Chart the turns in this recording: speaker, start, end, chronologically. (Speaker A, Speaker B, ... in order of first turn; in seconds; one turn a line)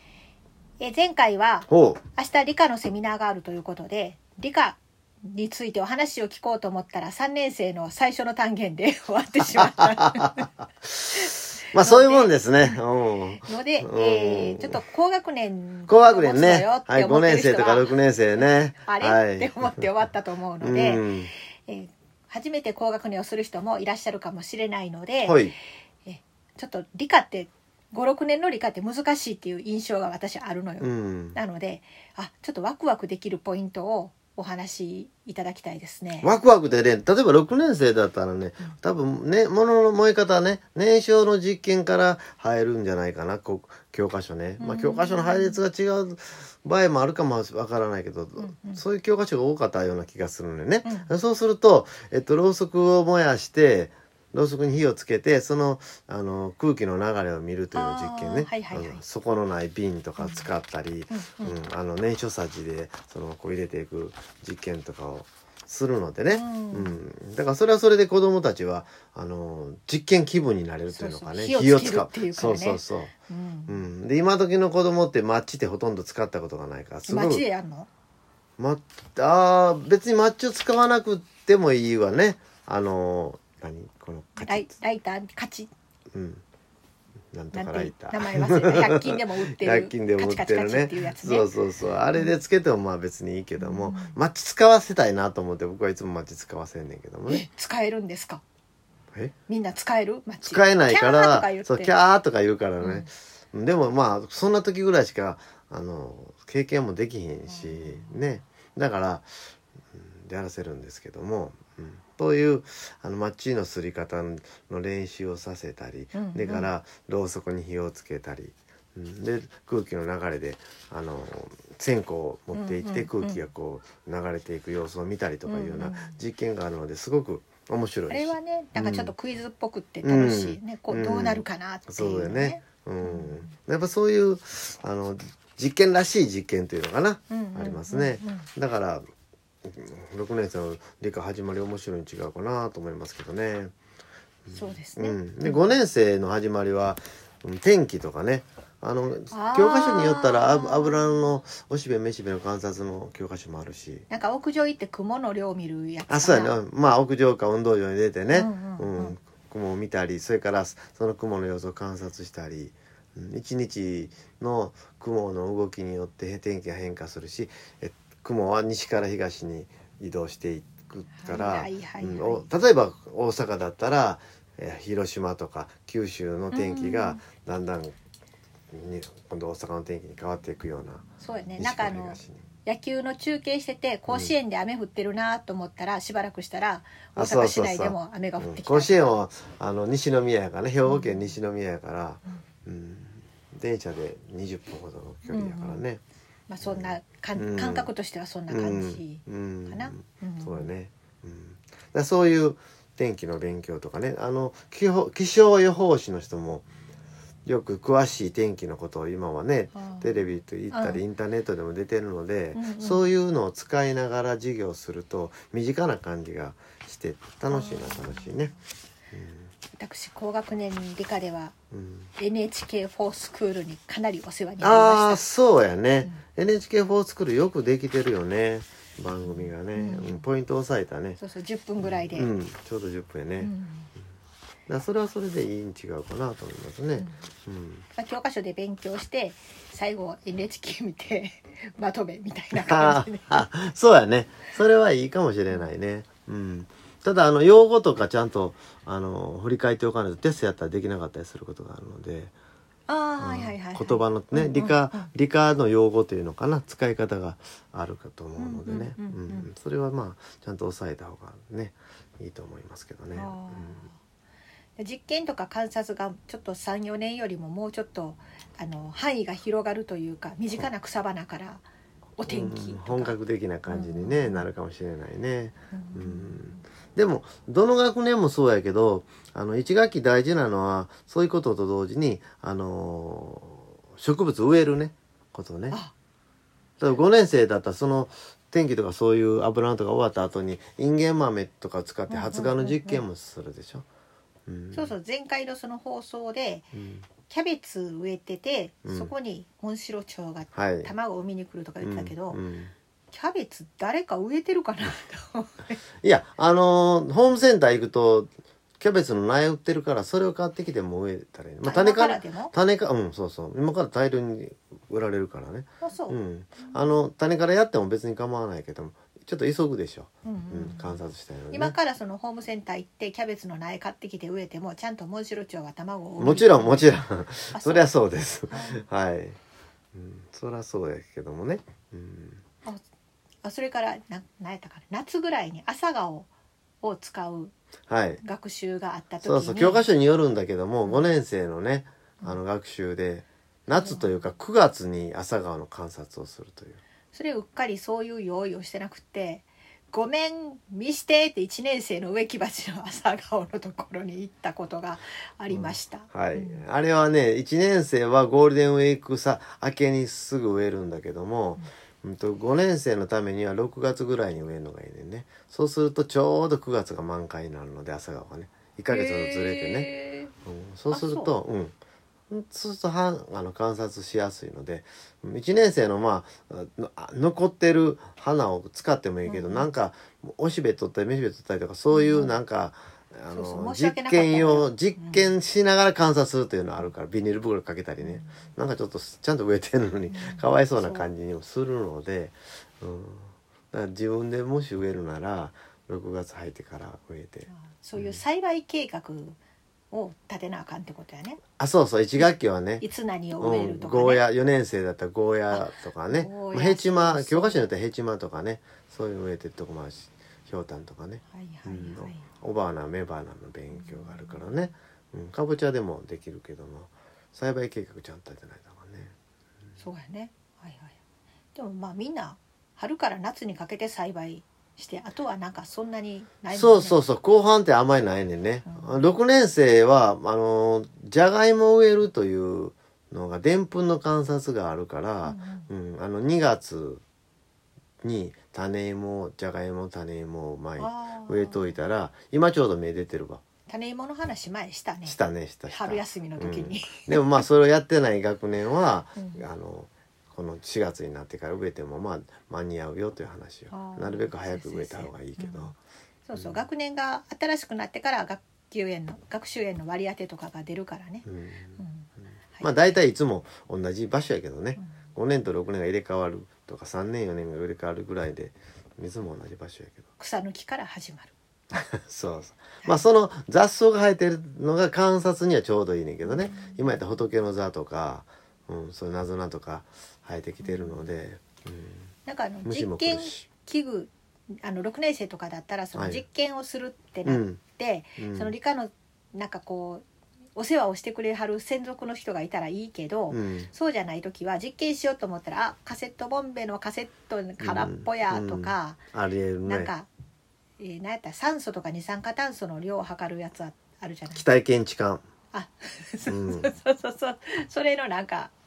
Speaker A: 0.8-10.5
Speaker B: 1.7-2.0
Speaker B: 9.6-10.4
Speaker B: 10.9-14.8
Speaker A: 11.1-12.8
Speaker A: 13.4-21.1
Speaker B: 15.9-19.9
Speaker B: 20.6-21.3
Speaker A: 21.6-25.5
Speaker B: 25.2-25.5
Speaker A: 26.1-36.3
Speaker B: 30.8-31.4
Speaker B: 36.2-73.1
Speaker A: 44.6-45.6
Speaker A: 48.4-48.8
Speaker A: 50.8-51.1
Speaker A: 57.7-59.0
Speaker A: 60.2-60.5
Speaker A: 61.1-61.6
Speaker A: 66.3-67.0
Speaker A: 70.9-73.8
Speaker B: 73.7-77.4
Speaker A: 77.1-77.9
Speaker B: 78.6-84.7
Speaker A: 84.4-85.7
Speaker B: 86.1-86.4
Speaker B: 87.3-97.5
Speaker A: 87.5-91.5
Speaker A: 93.6-94.2
Speaker A: 97.3-98.4
Speaker A: 99.5-101.9
Speaker B: 100.5-109.2
Speaker A: 102.8-103.1
Speaker A: 107.5-108.2
Speaker B: 109.9-129.1
Speaker A: 116.1-116.7
Speaker A: 122.5-123.4
Speaker A: 125.5-126.2
Speaker A: 128.1-133.5
Speaker B: 130.0-139.0
Speaker A: 137.3-138.5
Speaker B: 139.6-143.7
Speaker B: 144.4-154.1
Speaker A: 144.5-145.7
Speaker A: 149.3-151.2
Speaker A: 154.1-156.5
Speaker B: 156.1-177.9
Speaker A: 158.3-159.2
Speaker A: 171.1-172.5
Speaker A: 176.5-177.2
Speaker B: 178.7-181.0
Speaker A: 181.2-189.1
Speaker B: 181.6-182.4
Speaker B: 184.1-184.3
Speaker B: 187.2-196.0
Speaker A: 190.8-191.3
Speaker A: 195.3-195.8
Speaker A: 196.5-200.7
Speaker B: 196.6-197.9
Speaker B: 198.5-206.7
Speaker B: 207.4-218.6
Speaker A: 209.7-210.1
Speaker A: 210.7-211.0
Speaker A: 212.5-213.1
Speaker A: 217.5-218.4
Speaker B: 219.1-219.5
Speaker A: 219.7-221.5
Speaker B: 221.7-222.1
Speaker A: 222.2-225.2
Speaker B: 224.6-231.2
Speaker A: 229.2-230.2
Speaker A: 231.2-232.3
Speaker B: 231.8-233.5
Speaker A: 233.4-233.9
Speaker B: 234.7-237.8
Speaker A: 237.9-243.5
Speaker B: 242.6-252.3
Speaker A: 252.9-255.1
Speaker B: 253.2-263.9
Speaker A: 258.4-259.5
Speaker A: 263.1-264.0
Speaker A: 264.8-271.6
Speaker A: 272.2-273.2
Speaker B: 272.3-285.8
Speaker A: 273.7-274.5
Speaker A: 275.7-276.6
Speaker B: 286.8-293.9
Speaker A: 292.1-293.0
Speaker B: 294.5-294.9
Speaker A: 294.7-296.7
Speaker B: 296.7-297.1
Speaker A: 297.2-302.4
Speaker B: 298.8-299.1
Speaker B: 300.5-300.9
Speaker B: 301.8-302.7
Speaker A: 303.1-305.8
Speaker B: 306.0-321.7
Speaker A: 311.6-312.5
Speaker A: 315.8-316.8
Speaker A: 320.2-321.0
Speaker A: 321.5-326.9
Speaker B: 326.2-329.4
Speaker A: 327.5-327.9
Speaker A: 328.5-328.8
Speaker B: 329.9-332.4
Speaker A: 333.4-336.3
Speaker A: 336.8-337.5
Speaker B: 337.9-338.2
Speaker A: 338.2-339.8
Speaker B: 339.2-346.8
Speaker A: 343.7-344.2
Speaker A: 347.1-356.6
Speaker B: 355.5-369.9
Speaker A: 368.9-370.3
Speaker B: 370.4-371.8
Speaker A: 370.9-371.3
Speaker B: 372.3-398.2
Speaker A: 379.2-379.7
Speaker A: 381.9-382.4
Speaker A: 383.3-385.2
Speaker A: 388.0-388.3
Speaker A: 390.1-391.1
Speaker A: 397.5-399.4
Speaker A: 399.9-401.4
Speaker B: 401.6-402.8
Speaker A: 402.2-404.2
Speaker B: 403.4-419.1
Speaker A: 405.5-407.7
Speaker A: 411.3-412.2
Speaker A: 413.7-414.6
Speaker A: 419.8-420.9
Speaker A: 421.5-427.0
Speaker B: 426.5-437.0
Speaker A: 428.7-429.0
Speaker A: 435.2-435.7
Speaker B: 438.0-443.4
Speaker A: 440.8-441.7
Speaker A: 443.7-445.2
Speaker B: 445.1-455.8
Speaker A: 445.7-447.4
Speaker A: 449.1-449.4
Speaker A: 453.7-455.7
Speaker A: 456.3-461.2
Speaker B: 456.3-456.6
Speaker B: 461.2-461.8
Speaker A: 461.8-462.9
Speaker B: 462.6-470.1
Speaker A: 470.2-471.3
Speaker B: 471.7-482.1
Speaker A: 476.2-477.0
Speaker A: 480.6-481.0
Speaker A: 482.2-484.1
Speaker B: 482.6-483.4
Speaker A: 484.6-490.0
Speaker B: 485.9-486.2
Speaker B: 487.2-487.6
Speaker B: 488.2-488.5
Speaker A: 490.6-499.0
Speaker B: 493.3-493.7
Speaker B: 497.6-499.9
Speaker A: 499.7-500.1
Speaker A: 500.8-504.4
Speaker B: 504.3-505.2
Speaker A: 505.5-508.5
Speaker B: 506.3-506.7